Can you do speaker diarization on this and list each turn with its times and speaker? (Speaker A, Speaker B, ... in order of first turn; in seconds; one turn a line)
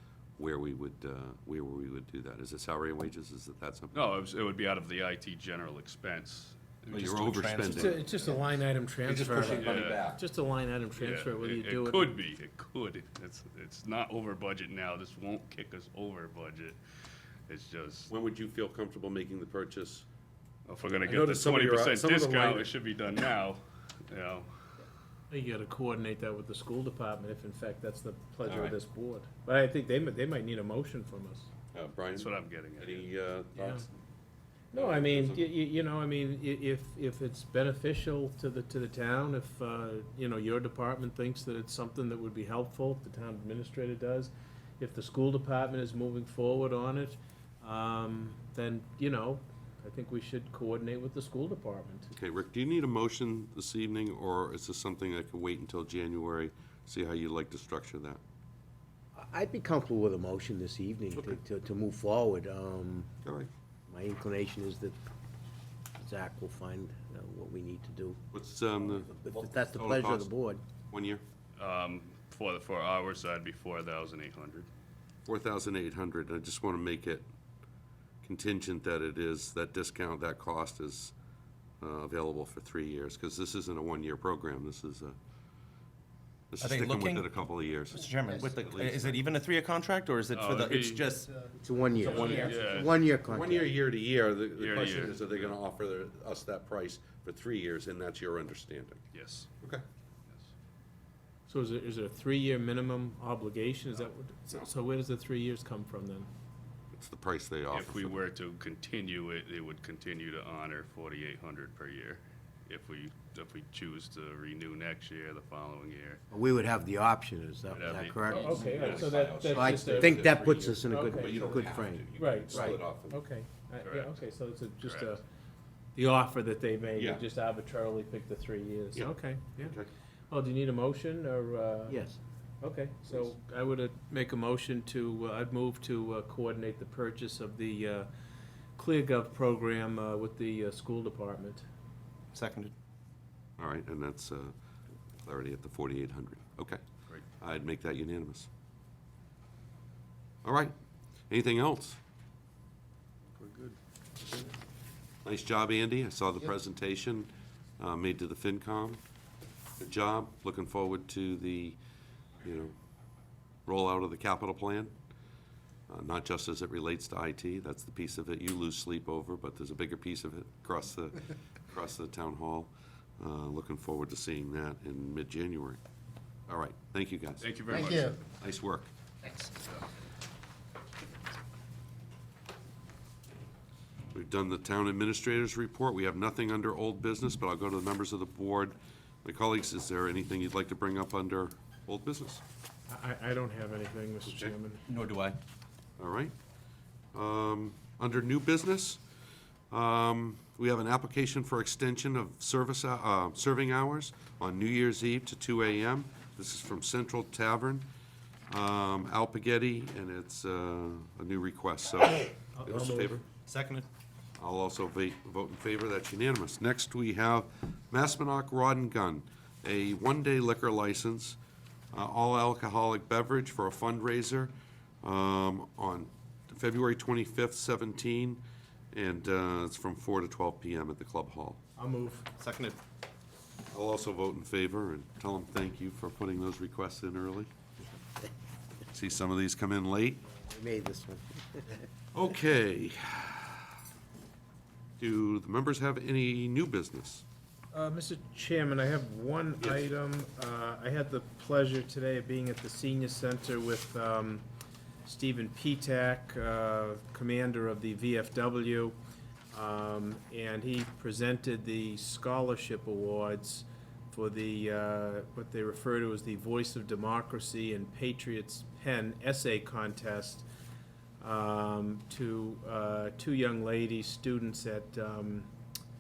Speaker A: 0.4-4.1
Speaker B: 3.9-7.2
Speaker A: 6.9-8.1
Speaker C: 6.9-8.0
Speaker D: 7.7-12.1
Speaker A: 9.1-10.2
Speaker C: 9.2-10.0
Speaker B: 9.5-10.0
Speaker B: 11.0-16.8
Speaker B: 17.5-18.1
Speaker A: 18.1-20.1
Speaker B: 20.6-24.5
Speaker A: 21.1-22.7
Speaker D: 25.3-31.5
Speaker A: 28.5-28.8
Speaker A: 31.7-33.9
Speaker B: 32.1-33.1
Speaker D: 33.6-33.8
Speaker D: 34.7-52.1
Speaker A: 34.7-35.5
Speaker A: 52.1-58.2
Speaker E: 59.1-63.1
Speaker A: 63.2-63.5
Speaker E: 63.9-65.0
Speaker E: 66.0-68.2
Speaker A: 68.3-69.1
Speaker E: 68.9-70.6
Speaker A: 69.7-70.3
Speaker A: 70.9-71.2
Speaker B: 71.6-74.7
Speaker A: 75.3-77.2
Speaker A: 78.2-81.1
Speaker A: 81.8-85.2
Speaker A: 86.5-89.2
Speaker C: 86.6-87.3
Speaker C: 87.9-92.7
Speaker B: 90.3-91.2
Speaker E: 91.5-93.7
Speaker B: 92.0-93.1
Speaker A: 93.2-99.0
Speaker B: 94.6-95.3
Speaker B: 99.1-99.5
Speaker D: 101.5-106.3
Speaker A: 106.9-108.2
Speaker B: 107.7-116.2
Speaker E: 116.3-122.8
Speaker B: 117.7-119.0
Speaker D: 118.3-125.2
Speaker A: 118.6-123.2
Speaker B: 123.8-124.1
Speaker B: 124.8-125.2
Speaker D: 126.0-129.7
Speaker A: 127.0-127.2
Speaker A: 128.9-129.9
Speaker D: 130.3-132.0
Speaker E: 131.9-132.2
Speaker D: 132.6-138.1
Speaker D: 138.8-141.7
Speaker C: 142.3-142.7
Speaker A: 143.6-144.6
Speaker A: 145.2-146.8
Speaker A: 147.4-148.5
Speaker A: 150.4-150.7
Speaker A: 151.3-152.0
Speaker C: 153.4-153.8
Speaker A: 155.2-159.0
Speaker A: 159.8-161.8
Speaker A: 162.4-162.7
Speaker A: 163.7-164.9
Speaker A: 165.9-175.8
Speaker A: 176.5-178.9
Speaker B: 177.4-178.2
Speaker A: 184.1-192.4
Speaker D: 192.9-194.8
Speaker A: 194.3-194.5
Speaker C: 194.9-195.4
Speaker A: 196.0-196.3
Speaker A: 197.1-199.0
Speaker A: 199.7-207.9
Speaker A: 208.5-213.3
Speaker D: 212.6-213.1
Speaker C: 213.3-213.9
Speaker A: 214.4-221.4
Speaker A: 221.9-231.6
Speaker D: 231.8-232.5
Speaker A: 233.7-237.5
Speaker A: 238.9-240.3
Speaker E: 240.3-241.8
Speaker A: 242.1-243.7
Speaker A: 245.0-247.2
Speaker D: 247.7-254.4
Speaker D: 255.1-258.9
Speaker D: 259.5-270.4
Speaker D: 271.2-275.5